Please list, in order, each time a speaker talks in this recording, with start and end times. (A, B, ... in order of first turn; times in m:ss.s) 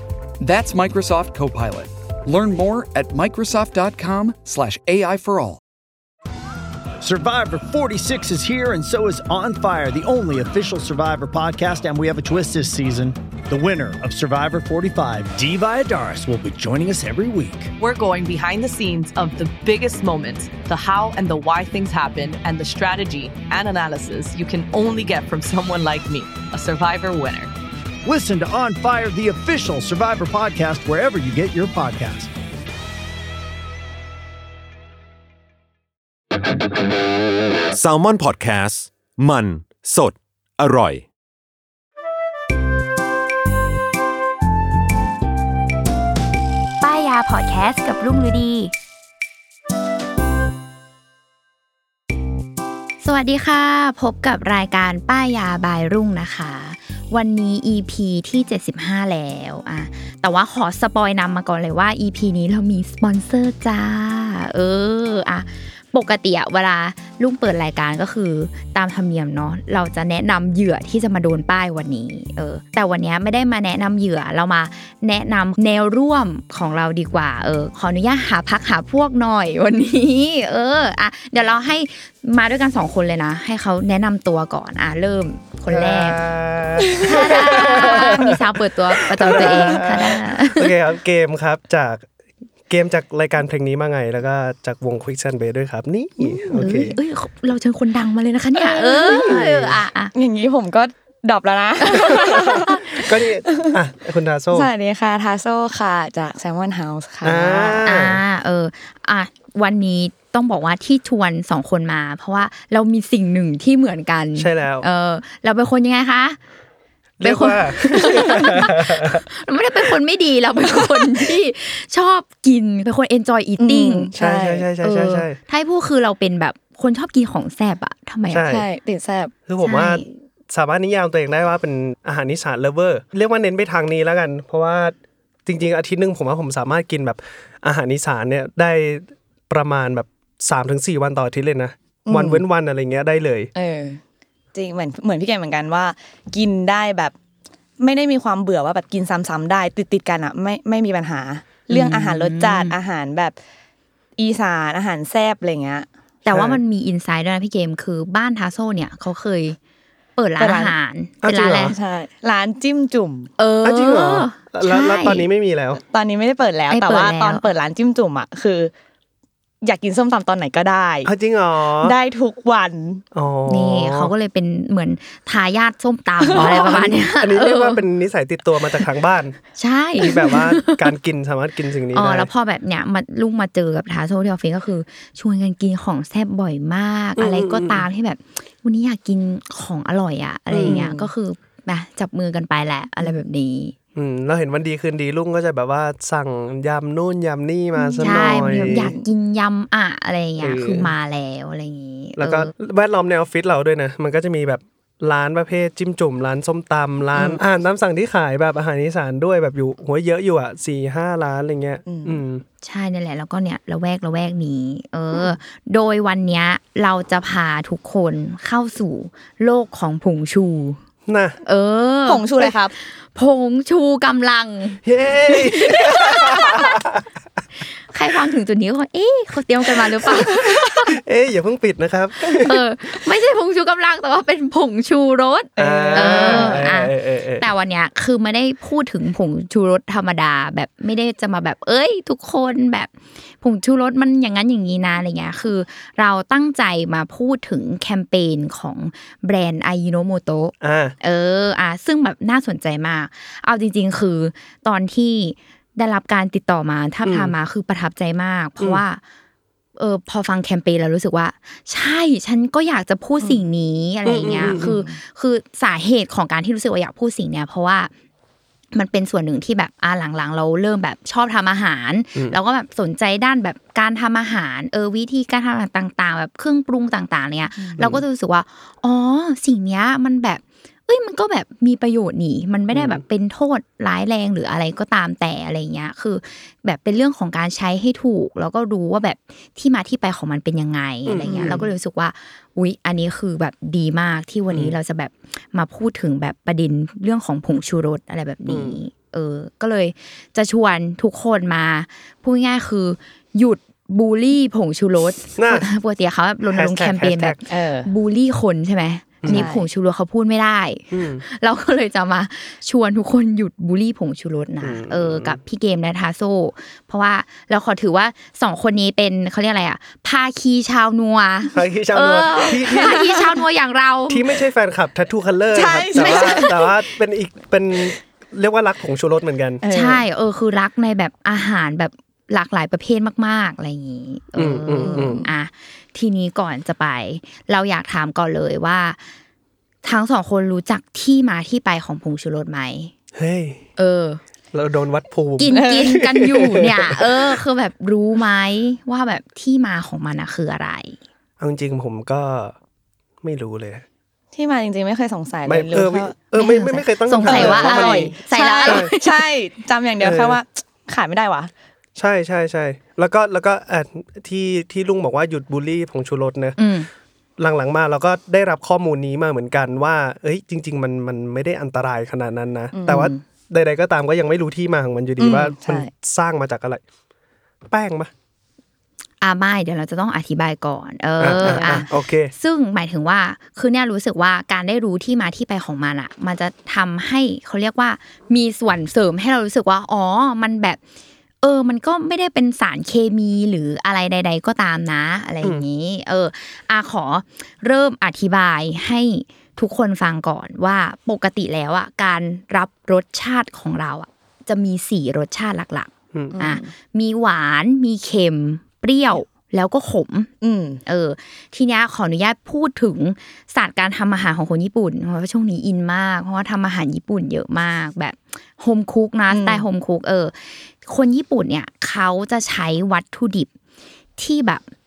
0:00.4-0:05.6 A
0:07.0-0:17.7 B
0:17.8-0:27.5 C
0:28.0-0:32.3 B
0:37.7-0:41.0 D
0:46.8-0:48.7 E
0:53.0-1:26.2 E
1:25.7-1:28.4 F
1:26.9-1:28.3 G
1:27.0-1:30.7 E
1:28.9-1:32.0 F
1:29.2-1:30.0 G
1:32.7-1:37.0 F
1:36.2-1:36.7 G
1:36.6-1:40.1 E
1:38.6-1:39.4 G
1:39.0-1:39.8 F
1:40.1-1:43.7 G
1:42.2-1:44.7 F
1:44.5-1:47.9 G
1:47.2-1:48.2 F
1:47.8-1:56.4 E
1:54.4-1:54.8 F
1:57.2-1:59.2 F
1:57.2-2:04.1 E
2:03.6-2:04.6 G
2:04.2-2:05.4 F
2:04.8-2:08.5 E
2:08.3-2:08.7 F
2:08.4-2:09.3 G
2:09.5-2:14.9 F
2:09.6-2:10.1 E
2:15.4-2:23.5 F
2:22.1-2:22.4 G
2:23.5-2:24.0 G
2:24.5-2:27.1 G
2:27.8-2:33.4 G
2:31.7-2:32.8 E
2:34.2-2:35.9 G
2:36.2-2:39.6 E
2:36.3-2:36.6 F
2:40.2-2:41.7 E
2:40.4-2:40.7 G
2:41.2-2:41.7 F
2:41.3-2:43.3 G
2:43.4-2:45.3 E
2:43.6-2:45.8 F
2:45.8-2:48.7 G
2:46.7-2:47.4 E
2:49.6-2:51.1 G
2:51.0-2:52.0 F
2:51.8-2:53.0 G
2:53.1-2:54.1 F
2:53.5-2:57.8 E
2:56.2-2:56.8 G
2:56.3-2:59.4 F
2:59.6-3:00.9 E
3:00.0-3:02.3 F
3:01.9-3:13.7 E
3:07.2-3:07.9 F
3:10.5-3:10.9 F
3:10.6-3:11.1 G
3:13.9-3:18.9 F
3:17.8-3:19.0 G
3:18.0-3:22.5 E
3:20.4-3:20.9 F
3:22.2-3:32.4 F
3:31.8-3:32.2 G
3:32.6-3:40.8 E
3:41.1-3:41.4 F
3:41.4-3:46.8 E
3:42.1-3:42.7 G
3:44.8-3:47.0 F
3:47.9-3:51.0 E
3:50.9-3:52.6 F
3:52.3-4:19.0 E
3:55.6-3:56.7 G
3:55.6-3:57.5 F
4:10.6-4:10.9 F
4:17.0-4:17.3 F
4:19.8-4:27.9 E
4:24.0-4:24.7 F
4:24.3-4:25.0 G
4:28.7-5:24.2 E
4:37.8-4:38.0 F
4:42.7-4:43.0 F
4:51.1-4:51.6 F
4:51.3-4:51.6 G
4:58.5-4:58.8 F
5:05.4-5:05.7 F
5:06.4-5:07.4 F
5:07.5-5:07.9 G
5:09.2-5:09.5 F
5:09.3-5:09.7 G
5:10.9-5:11.2 F
5:14.6-5:15.4 F
5:21.5-5:23.2 F
5:22.6-5:23.2 G
5:24.1-5:29.6 F
5:25.5-5:26.7 G
5:25.9-5:26.5 E
5:29.6-5:30.0 G
5:29.6-5:39.0 E
5:34.4-5:35.3 F
5:34.7-5:35.3 G
5:39.8-5:42.9 E
5:43.1-5:43.6 F
5:43.8-5:44.2 E
5:44.5-5:47.2 F
5:45.4-5:51.0 E
5:45.4-5:46.0 G
5:51.4-5:52.5 F
5:53.2-5:53.8 F
5:54.3-6:01.5 G
5:55.4-5:58.9 F
5:56.4-5:59.3 E
6:00.0-6:00.4 F
6:02.0-6:06.6 F
6:06.6-6:06.9 E
6:07.4-6:16.8 F
6:12.7-6:13.2 G
6:15.2-6:15.9 G
6:17.7-6:18.1 F
6:19.2-6:30.8 E
6:21.2-6:22.3 F
6:21.4-6:21.8 G
6:31.4-6:50.3 E
6:46.1-6:46.4 F
6:46.3-6:46.7 G
6:50.4-6:50.8 G
6:50.8-7:03.5 E
6:59.3-6:59.6 G
7:04.2-7:04.6 E